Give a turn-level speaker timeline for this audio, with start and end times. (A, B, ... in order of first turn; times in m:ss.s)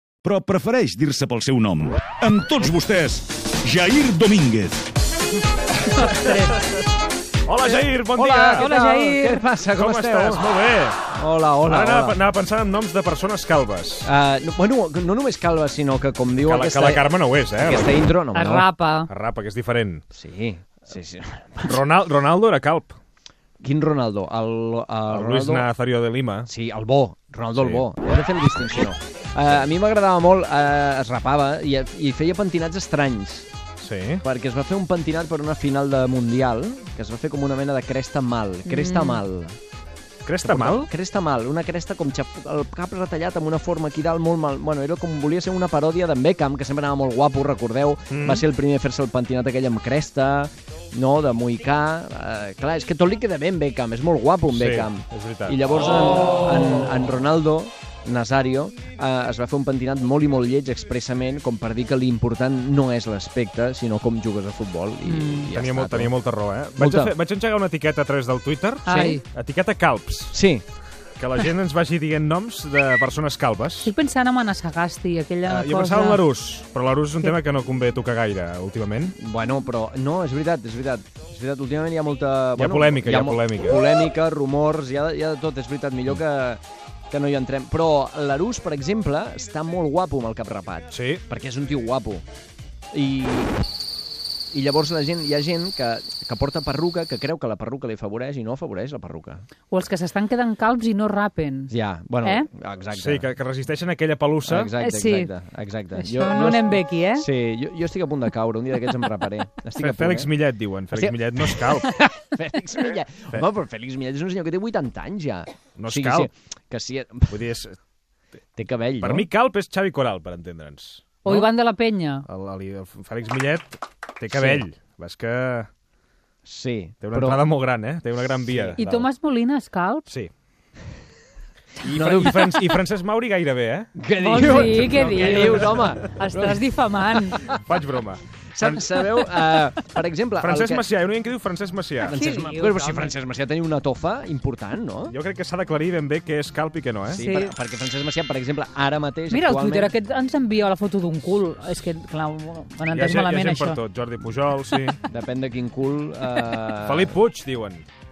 0:00.2-0:04.9 A
0:05.9-0:06.7 B
0:07.4-0:08.7 C
0:08.1-0:10.5 D
0:08.5-0:09.4 B
0:09.8-0:11.0 C
0:11.1-0:12.2 D
0:11.6-0:14.1 C
0:14.0-0:18.7 D
0:16.4-0:18.0 C
0:18.3-0:19.1 B
0:19.1-0:20.0 C
0:20.1-0:21.8 D
0:21.6-0:23.0 C
0:23.6-0:25.7 D
0:25.1-0:26.5 C
0:26.4-0:33.5 D
0:27.5-0:27.8 C
0:33.8-0:34.2 C
0:34.2-0:39.6 D
0:38.6-0:39.2 B
0:40.2-0:40.9 C
0:40.4-1:06.1 D
0:48.1-0:48.4 C
0:54.5-0:55.6 C
1:05.0-1:05.5 B
1:05.5-1:10.3 C
1:06.8-1:07.2 D
1:08.9-1:09.2 B
1:08.9-1:09.2 D
1:10.3-1:10.6 D
1:11.2-1:13.9 C
1:13.8-1:16.2 B
1:15.4-1:19.2 C
1:19.2-1:32.2 D
1:22.6-1:23.8 C
1:30.9-1:31.2 C
1:32.9-1:33.6 D
1:34.5-1:39.4 D
1:39.7-1:42.5 B
1:41.7-1:43.3 D
1:42.9-1:44.7 C
1:44.4-1:50.3 D
1:44.8-1:45.3 B
1:46.0-1:47.3 B
1:49.8-1:51.9 C
1:50.9-1:57.4 D
1:55.8-1:56.3 C
1:57.3-1:57.8 C
1:58.6-1:59.3 D
1:59.0-2:01.5 C
2:01.2-2:02.3 B
2:02.2-2:05.7 C
2:04.3-2:04.6 D
2:06.4-2:07.4 D
2:07.0-2:09.0 C
2:08.5-2:08.8 D
2:08.8-2:10.0 B
2:11.8-2:13.9 C
2:11.8-2:12.8 D
2:14.0-2:16.6 D
2:14.2-2:17.4 B
2:15.1-2:15.9 C
2:17.2-2:17.6 D
2:17.4-2:19.7 C
2:18.5-2:20.8 D
2:20.4-2:22.2 C
2:22.0-2:25.2 D
2:22.1-2:23.1 B
2:25.1-2:27.2 C
2:27.1-2:29.9 D
2:27.1-2:27.5 B
2:29.3-2:33.8 B
2:32.9-2:35.0 C
2:35.0-2:37.2 D
2:36.7-2:37.8 C